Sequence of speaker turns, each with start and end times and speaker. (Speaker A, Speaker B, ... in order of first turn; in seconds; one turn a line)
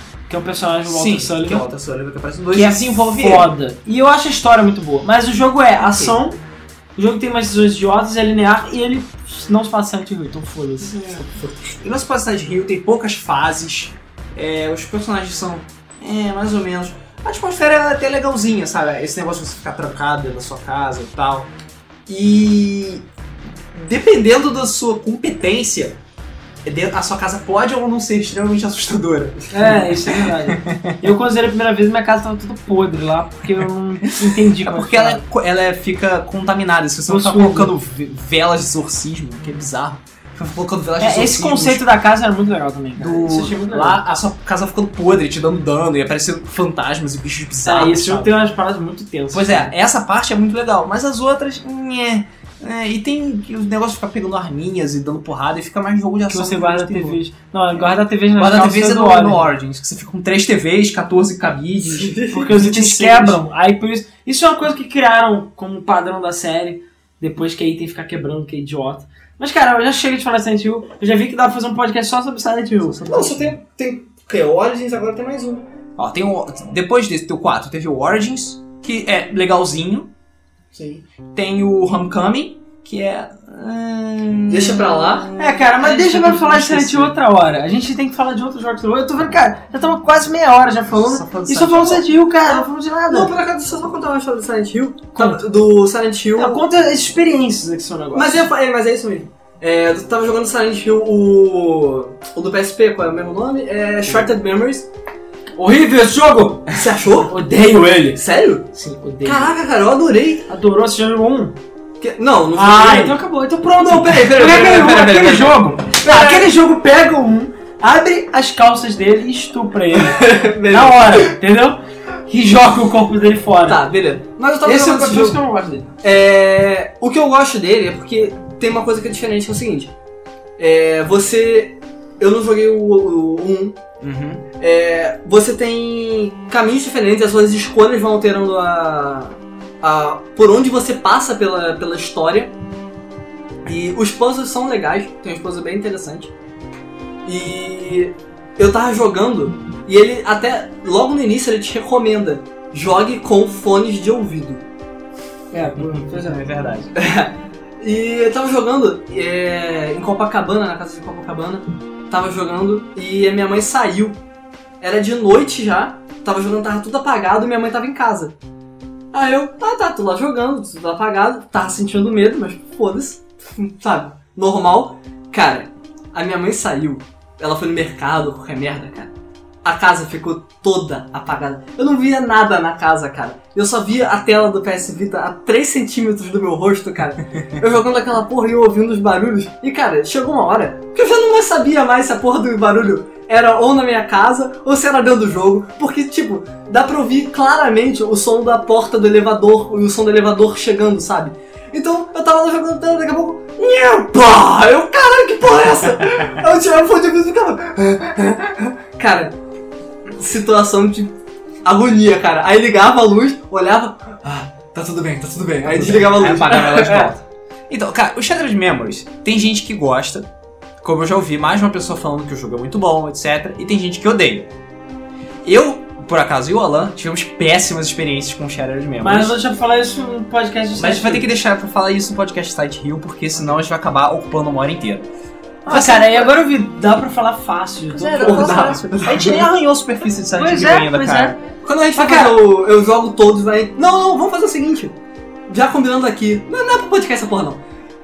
Speaker A: 0.3-1.6
Speaker B: 0.8-3.5
Speaker A: 2.5-6.4
Speaker A: 7.0-11.2
Speaker C: 10.9-11.8
Speaker B: 11.8-21.5
Speaker B: 22.1-23.1
Speaker B: 23.7-25.9
Speaker B: 26.6-30.9
Speaker A: 29.5-35.2
Speaker B: 34.3-41.8
Speaker A: 37.1-37.7
Speaker A: 41.0-44.0
Speaker B: 43.0-48.3
Speaker A: 47.6-49.7
Speaker B: 49.3-57.2
Speaker A: 56.3-59.5
Speaker B: 58.4-63.4
Speaker C: 61.9-62.5
Speaker A: 62.3-73.0
Speaker B: 72.9-73.5
Speaker C: 73.0-75.6
Speaker B: 76.0-80.1
Speaker C: 80.7-81.0
Speaker B: 81.3-87.2
Speaker C: 84.5-85.3
Speaker A: 85.4-93.3
Speaker B: 91.0-92.1
Speaker C: 92.4-96.6
Speaker A: 95.1-95.4
Speaker A: 96.3-98.5
Speaker C: 98.1-104.9
Speaker A: 105.6-108.2
Speaker C: 106.7-107.3
Speaker C: 108.1-108.7
Speaker A: 108.7-109.5
Speaker C: 109.2-110.5
Speaker A: 110.5-111.6
Speaker C: 112.0-113.2
Speaker A: 112.5-123.8
Speaker C: 113.8-116.5
Speaker C: 119.9-121.3
Speaker C: 123.7-125.4
Speaker A: 124.6-125.9
Speaker C: 126.0-129.9
Speaker C: 130.6-133.8
Speaker B: 134.0-134.4
Speaker C: 134.6-142.5
Speaker C: 143.7-146.3
Speaker C: 147.2-154.6
Speaker A: 155.5-156.5
Speaker B: 155.7-156.9
Speaker C: 156.9-164.2
Speaker C: 164.8-168.3
Speaker C: 169.1-179.1
Speaker C: 179.6-209.3
Speaker C: 210.1-217.1
Speaker B: 215.6-220.3
Speaker B: 220.8-224.5
Speaker B: 225.4-229.3
Speaker A: 229.0-231.2
Speaker B: 230.8-235.1
Speaker A: 235.7-238.8
Speaker B: 235.7-236.3
Speaker B: 237.9-241.4
Speaker C: 238.0-239.5
Speaker A: 240.3-241.4
Speaker C: 241.6-244.9
Speaker A: 241.9-242.4
Speaker C: 245.5-247.6